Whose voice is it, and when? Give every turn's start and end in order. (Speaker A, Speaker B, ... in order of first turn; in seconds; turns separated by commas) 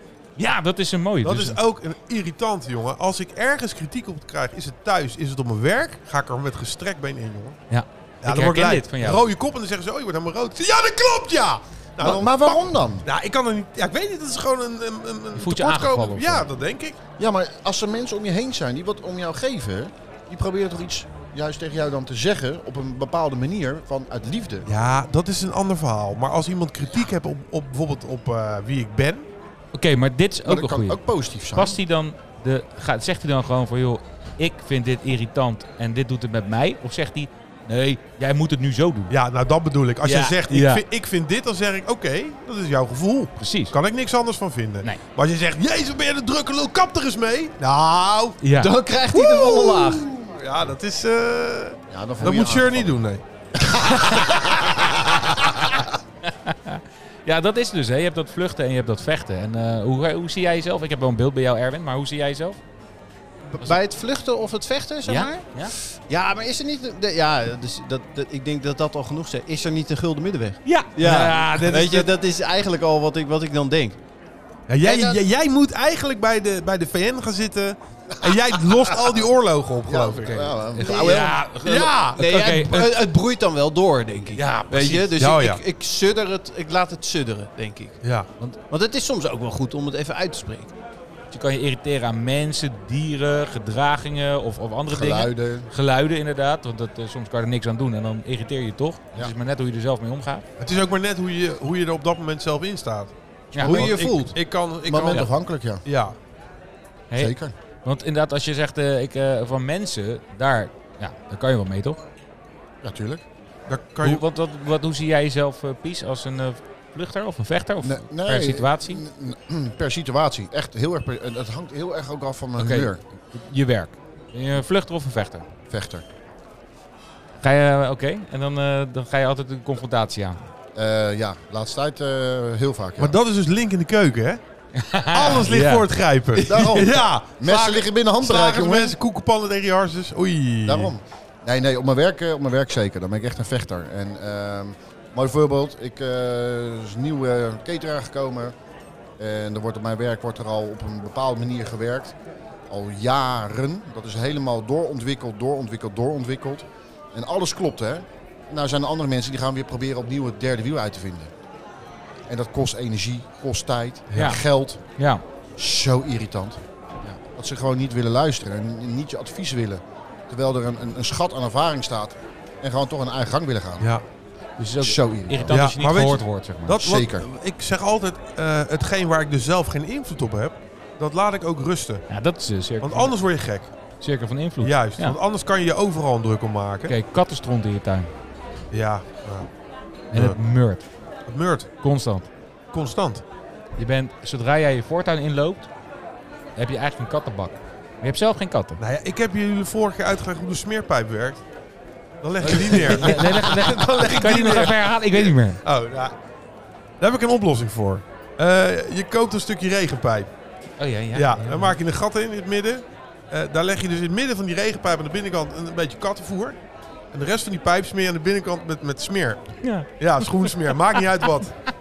Speaker A: 0.4-1.6, Speaker B: 1.2-7.6, Speaker A: 7.7-9.2, Speaker B: 8.2-17.0, Speaker C: 12.0-13.1, Speaker A: 15.3-16.5, Speaker C: 17.2-24.7, Speaker B: 24.6-29.3, Speaker A: 29.7-31.0, Speaker C: 30.4-31.8, Speaker A: 31.5-39.1, Speaker B: 39.1-48.4, Speaker D: 40.0-40.4, Speaker A: 40.4-40.8, Speaker A: 43.4-43.7, Speaker A: 48.4-48.7, Speaker D: 48.6-50.1, Speaker B: 49.1-53.2, Speaker C: 51.9-53.0, Speaker C: 53.6-55.8, Speaker A: 56.2-62.6, Speaker D: 63.5-74.0, Speaker A: 65.0-65.7, Speaker A: 70.6-71.7, Speaker B: 71.2-72.1, Speaker B: 74.7-80.5, Speaker D: 74.8-75.2, Speaker C: 79.8-81.3, Speaker A: 80.2-82.8, Speaker D: 80.8-81.5, Speaker B: 81.0-82.9, Speaker D: 82.1-88.0, Speaker A: 84.3-85.1, Speaker B: 85.2-85.6, Speaker B: 88.0-88.3, Speaker D: 88.7-90.7, Speaker A: 91.3-100.5, Speaker C: 94.9-95.7, Speaker B: 100.6-105.3, Speaker A: 103.5-103.9, Speaker C: 103.6-103.9, Speaker D: 103.6-104.3, Speaker C: 104.8-105.8, Speaker B: 105.8-106.1, Speaker A: 107.1-112.0, Speaker C: 107.2-107.5, Speaker C: 112.8-113.2, Speaker B: 113.7-114.2, Speaker A: 114.0-119.0, Speaker C: 117.8-123.0, Speaker A: 122.6-125.5, Speaker C: 125.7-126.0, Speaker A: 127.4-130.4, Speaker C: 130.7-133.2, Speaker B: 133.0-134.4, Speaker A: 134.7-135.9, Speaker B: 135.1-140.9, Speaker C: 136.4-139.0, Speaker C: 140.6-148.5, Speaker C: 149.2-152.2, Speaker C: 152.7-161.3, Speaker C: 162.3-164.8, Speaker A: 164.1-164.4, Speaker A: 165.0-165.2, Speaker C: 165.6-166.6, Speaker C: 167.2-173.9, Speaker A: 174.6-176.8, Speaker C: 174.8-175.6, Speaker B: 175.5-182.1, Speaker C: 176.8-177.2, Speaker A: 182.1-183.2, Speaker B: 182.8-183.7, Speaker A: 184.0-185.2, Speaker B: 184.6-186.9, Speaker A: 186.9-188.1, Speaker B: 188.7-189.5, Speaker B: 190.1-190.4, Speaker A: 190.1-190.8, Speaker B: 191.2-191.7, Speaker A: 191.8-192.3, Speaker B: 192.7-193.2, Speaker A: 193.8-195.7, Speaker A: 196.6-198.8, Speaker B: 198.8-201.4, Speaker B: 202.2-206.1, Speaker A: 202.4-205.6, Speaker B: 207.0-210.3, Speaker A: 210.8-211.8, Speaker B: 211.1-216.6, Speaker B: 217.1-221.6, Speaker A: 219.6-220.8